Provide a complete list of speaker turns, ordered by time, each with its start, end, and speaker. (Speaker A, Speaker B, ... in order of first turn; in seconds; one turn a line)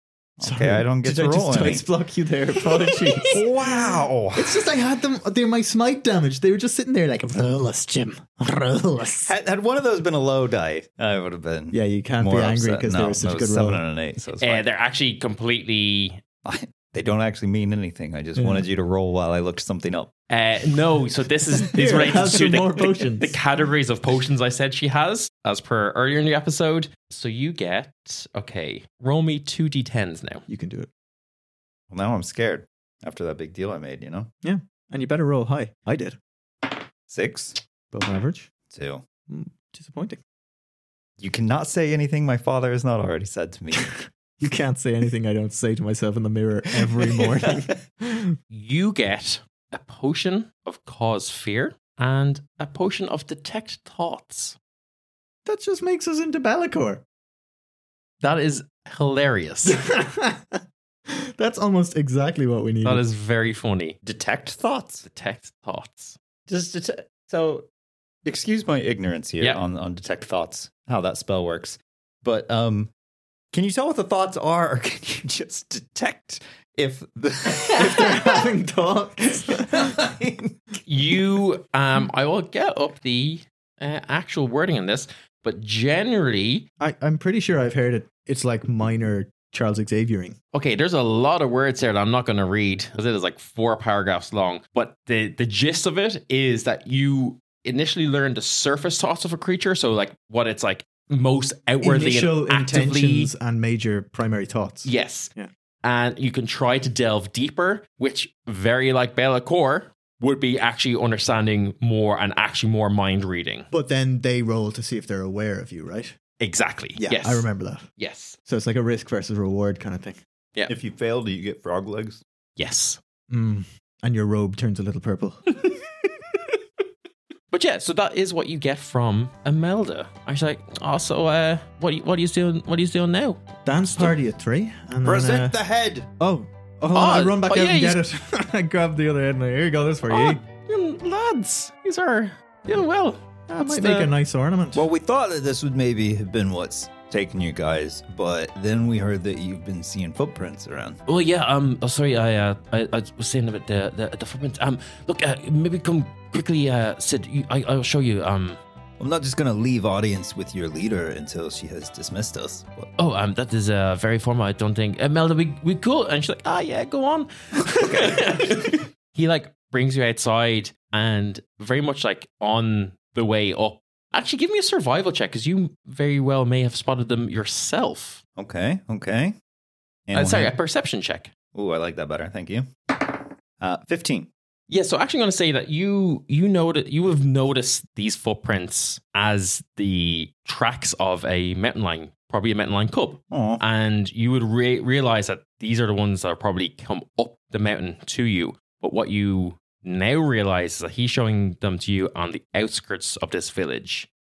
Speaker A: 0.4-1.8
Speaker B: 0.4-9.3
Speaker A: 3.3-4.7
Speaker A: 9.2-14.6
Speaker B: 11.7-13.8
Speaker C: 14.4-16.2
Speaker A: 16.4-20.1
Speaker B: 18.4-18.6
Speaker C: 20.3-30.4
Speaker B: 21.7-23.4
Speaker B: 30.5-30.9
Speaker A: 31.9-34.3
Speaker B: 34.4-36.2
Speaker A: 37.1-37.6
Speaker B: 37.9-38.5
Speaker A: 38.7-39.0
Speaker B: 39.3-40.2
Speaker A: 41.2-43.9
Speaker B: 43.7-48.4
Speaker A: 47.0-47.7
Speaker C: 48.5-54.5
Speaker B: 55.5-57.0
Speaker C: 58.2-59.8
Speaker B: 59.6-63.0
Speaker C: 62.8-64.0
Speaker A: 64.0-65.0
Speaker C: 65.0-66.2
Speaker A: 66.5-67.7
Speaker A: 68.2-72.9
Speaker A: 73.5-78.5
Speaker B: 77.7-80.0
Speaker A: 79.3-80.5
Speaker C: 80.8-86.7
Speaker B: 86.8-90.3
Speaker C: 90.5-103.3
Speaker B: 101.8-105.5
Speaker C: 104.8-105.3
Speaker C: 105.8-113.7
Speaker B: 113.7-116.2
Speaker C: 116.4-118.4
Speaker B: 117.0-117.9
Speaker B: 118.5-120.2
Speaker A: 120.7-122.2
Speaker C: 122.6-123.0
Speaker B: 123.3-125.5
Speaker C: 127.5-134.1
Speaker B: 133.7-135.6
Speaker A: 135.0-136.1
Speaker B: 136.2-140.4
Speaker C: 136.9-138.0
Speaker C: 140.1-144.1
Speaker B: 143.5-144.8
Speaker A: 144.7-151.0
Speaker C: 151.1-158.6
Speaker A: 159.0-162.9
Speaker C: 163.0-178.2
Speaker A: 167.9-168.7
Speaker A: 178.4-179.3
Speaker A: 180.1-180.5
Speaker C: 180.1-181.3
Speaker A: 181.5-184.3
Speaker C: 184.7-204.1
Speaker A: 193.3-193.6